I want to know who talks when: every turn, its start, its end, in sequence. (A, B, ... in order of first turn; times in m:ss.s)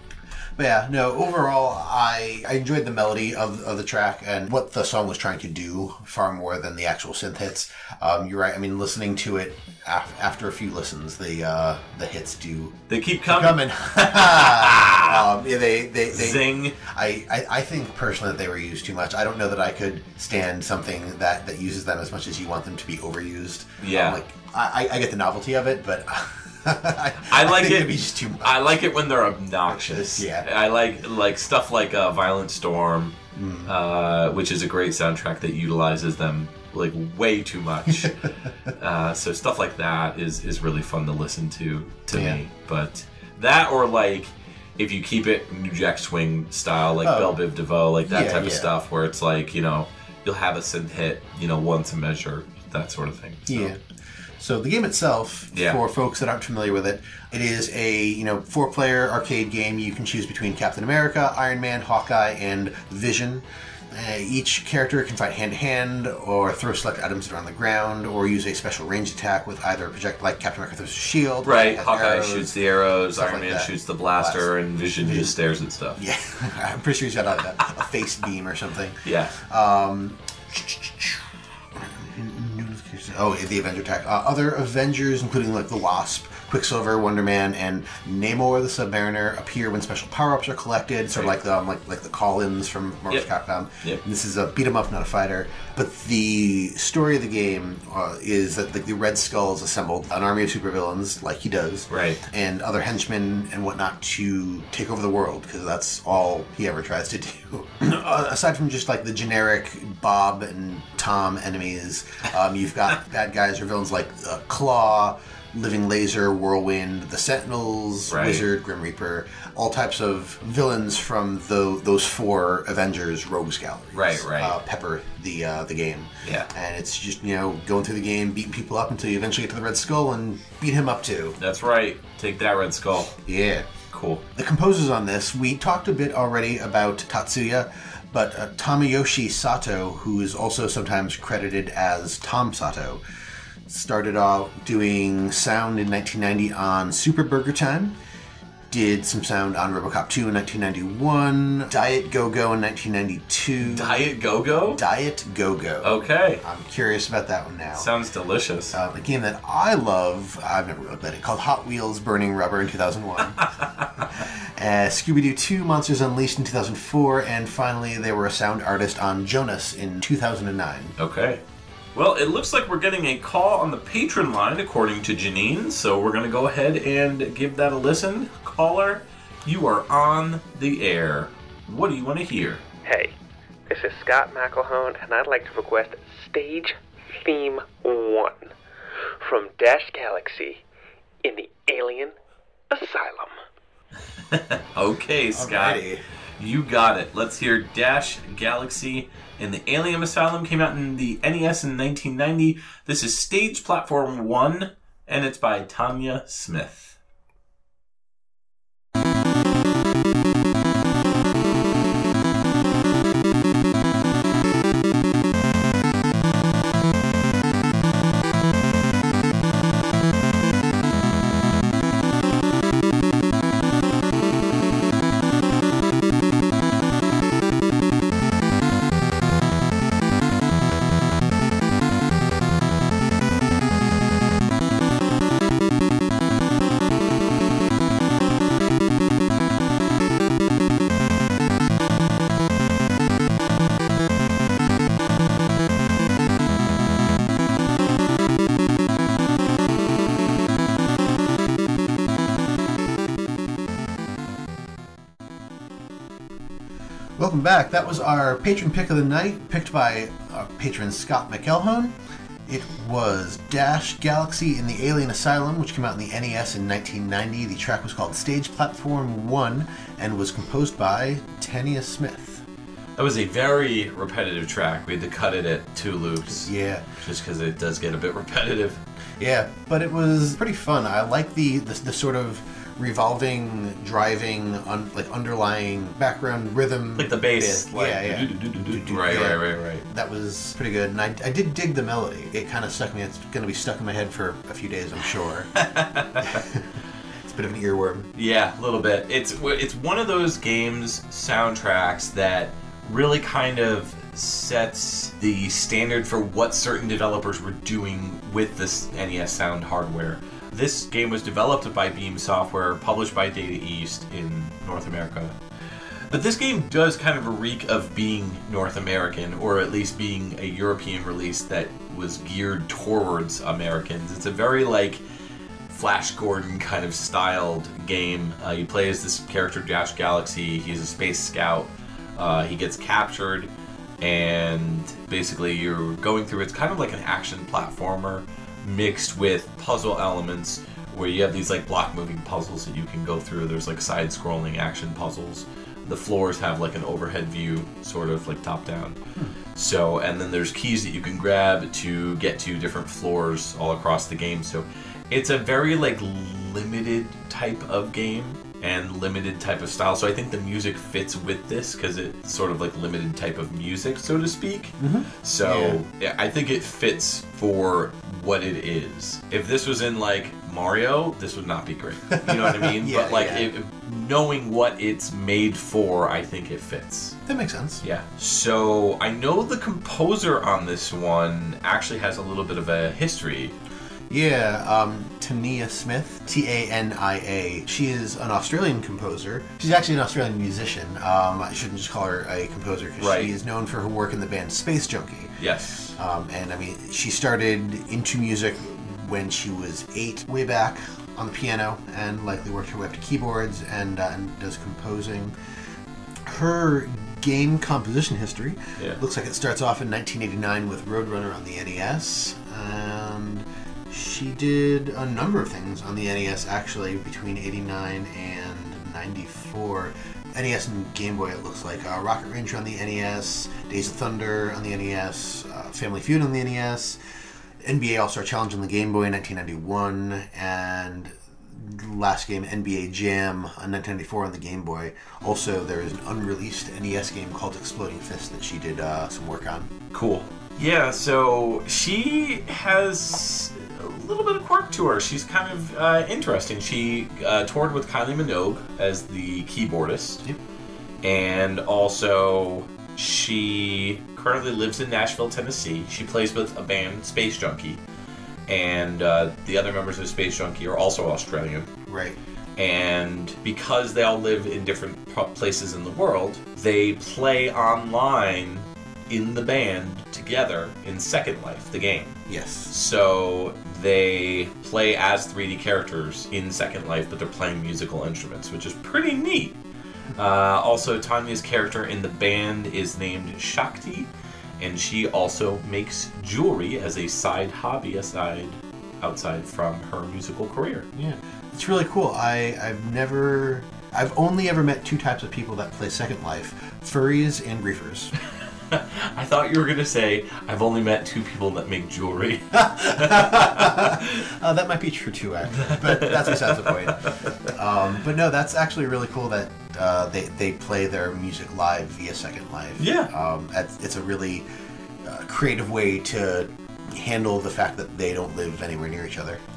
0:00.6-0:28.8 A
0:12.9-0:15.2 B
0:16.1-0:16.8 B
0:23.8-0:24.2 B
0:27.2-0:38.2 B
0:29.7-0:30.5 A
0:33.4-0:33.7 A
0:38.0-0:38.7 A
0:38.8-0:53.7 B
0:42.1-0:42.4 A
0:47.0-0:47.4 A
0:48.0-0:48.7 A
0:53.5-0:53.8 A
0:54.4-1:12.6 A
0:55.5-0:55.8 B
1:11.4-1:16.0 B
1:13.1-1:15.3 A
1:16.0-2:11.4 A
1:19.0-1:19.3 B
1:41.9-1:42.2 B
1:58.1-1:58.5 B
2:03.9-2:04.6 B
2:06.2-2:06.5 B
2:11.4-2:13.2 B
2:13.2-2:13.7 A
2:13.9-2:14.2 B
2:14.4-2:23.0 A
2:23.7-2:28.0 A
2:28.7-2:34.0 A
2:33.6-2:34.8 B
2:34.7-2:37.9 A
2:35.8-2:36.4 B
2:37.8-2:38.8 B
2:38.7-2:43.5 A
2:43.4-2:44.1 B
2:44.0-2:51.0 A
2:51.0-2:51.4 B
2:51.9-3:02.6 B
3:02.8-3:03.1 C
3:03.7-3:08.5 C
3:09.2-3:10.6 C
3:11.2-3:12.2 C
3:12.7-3:13.4 C
3:14.3-3:15.8 B
3:15.3-3:16.0 A
3:16.4-3:27.0 B
4:17.2-4:32.4 A
4:33.0-4:38.8 B
4:36.3-4:36.9 A
4:39.2-4:55.5 A
4:47.0-4:49.8 B
4:55.6-4:56.4 B
4:56.3-4:56.7 A
4:57.2-4:58.1 A
4:58.2-5:15.4 B
5:16.1-5:25.0 B
5:25.7-5:49.0 B
5:49.5-6:17.2 B
6:04.8-6:05.8 A
6:12.2-6:13.5 A
6:17.3-6:17.8 A
6:17.8-6:23.6 B
6:24.1-6:35.4 A
6:33.0-6:33.4 B
6:35.4-6:36.0 B
6:36.0-6:45.4 A
6:46.3-7:07.0 A
7:07.6-7:19.7 A
7:19.9-7:30.2 B
7:31.0-7:37.8 B
7:38.5-7:41.7 B
7:41.9-7:42.2 A
7:42.6-7:52.2 B
7:52.3-7:52.7 A
7:52.7-7:59.6 B
8:00.2-8:10.9 B
8:11.0-8:18.1 A
8:18.7-8:24.2 B
8:22.5-8:34.5 A
8:25.5-8:27.5 B
8:32.8-8:33.1 B
8:35.0-8:39.4 A